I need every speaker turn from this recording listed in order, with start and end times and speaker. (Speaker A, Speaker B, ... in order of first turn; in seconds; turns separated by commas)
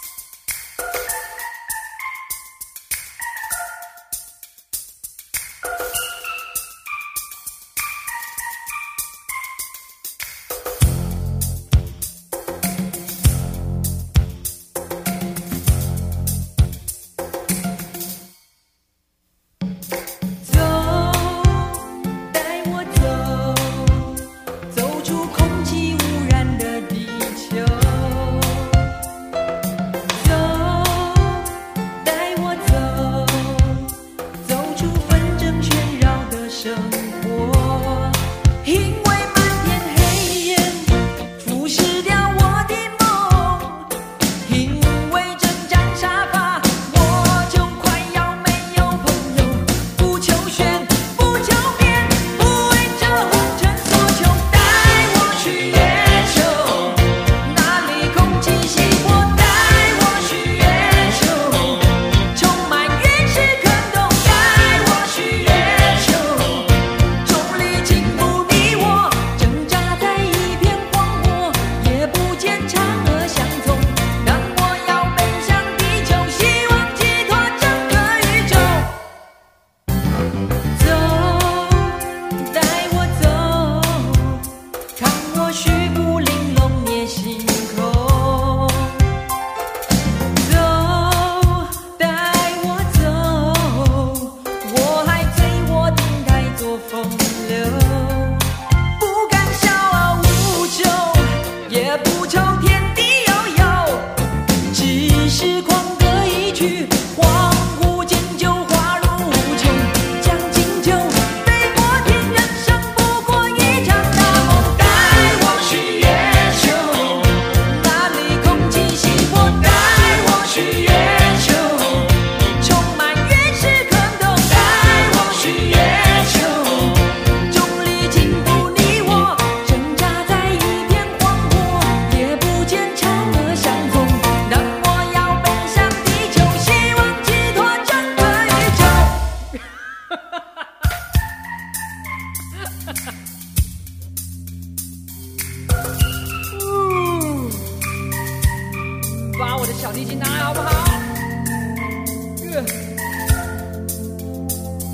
Speaker A: 20.4-24.1, Speaker A: 24.7-28.8, Speaker A: 30.1-33.9, Speaker A: 34.4-79.0, Speaker A: 80.7-89.0, Speaker A: 90.3-104.2, Speaker A: 104.7-139.3, Speaker A: 146.6-147.6, Speaker A: 149.1-151.1, Speaker A: 152.4-152.7